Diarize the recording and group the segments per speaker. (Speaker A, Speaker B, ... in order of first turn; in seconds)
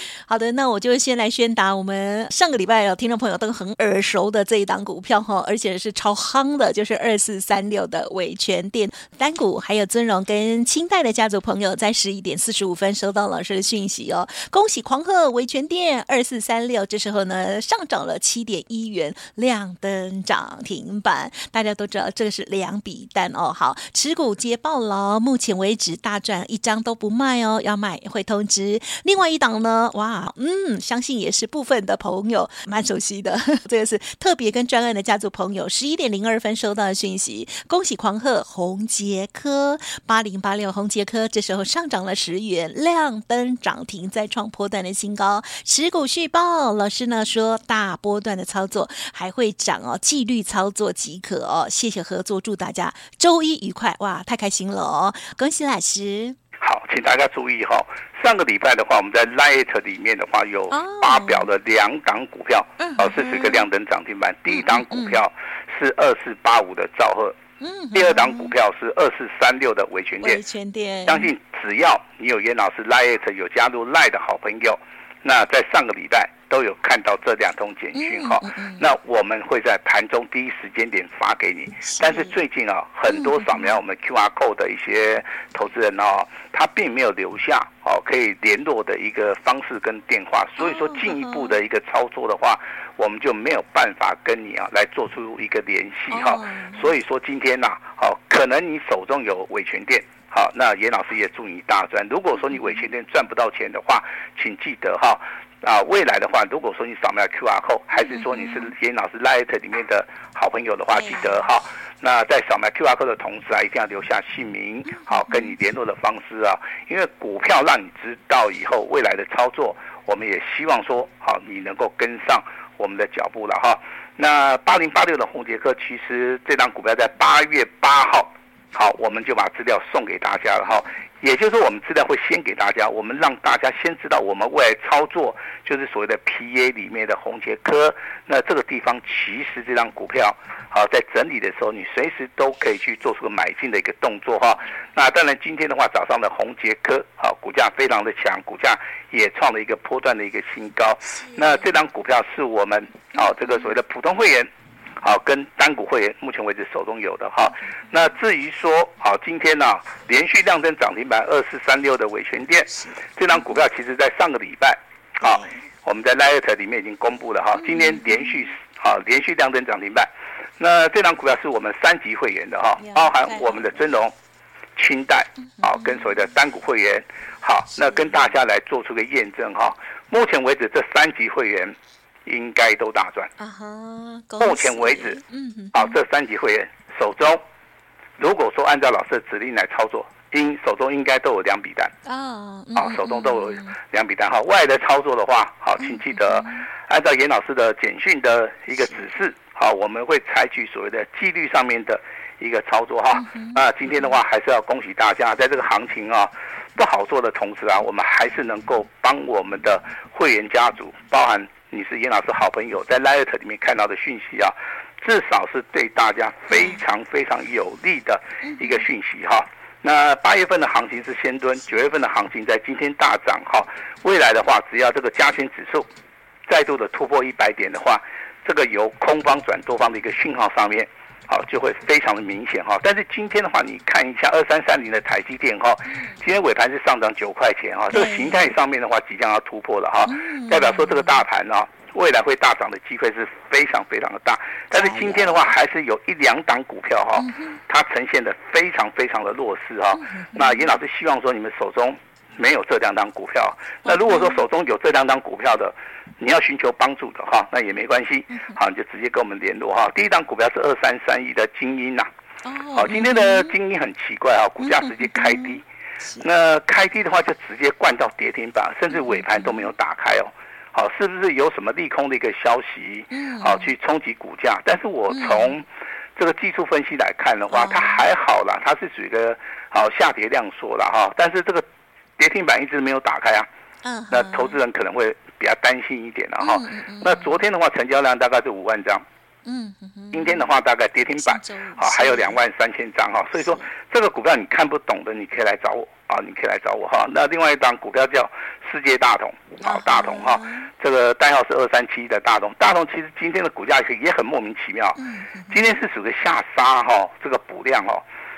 Speaker A: 0.3-56.4, 60.7-61.5, 62.8-63.6, 64.5-65.2, 67.6-68.5, 70.2-71.3, 77.9-78.9, 81.8-82.3, 83.1-83.7, 90.6-91.5, 96.1-96.9, 108.1-108.7, 110.9-111.5, 115.3-115.5, 151.2-151.5, 162.7-163.0, 165.2-165.6, 167.6-168.4, 172.8-173.7, 175.4-176.0, 177.7-178.3, 183.4-185.9, 192.0-193.8, 195.8-196.7, 203.1-204.1, 216.5-216.8, 218.4-218.8, 237.9-238.5, 240.1-241.2, 244.7-245.5, 247.2-247.6, 249.9-250.7, 253.8-254.4, 258.3-258.6, 262.4-263.5, 264.6-266.2, 268.9-269.6, 273.1-273.7, 275.1-275.5, 277.5-278.0, 283.8-284.6, 286.4-287.4, 289.4-290.5, 291.1-292.4, 293.4-293.7, 299.6-300.7, 305.0-305.6
Speaker B: 56.6-67.3, 67.9-70.4, 71.0-174.1, 174.8-183.3, 184.4-185.2, 185.7-187.4, 188.2-191.9, 192.7-225.9, 226.5-262.1, 262.7-265.6, 266.2-281.6, 282.2-283.5, 284.1-289.1, 290.1-308.0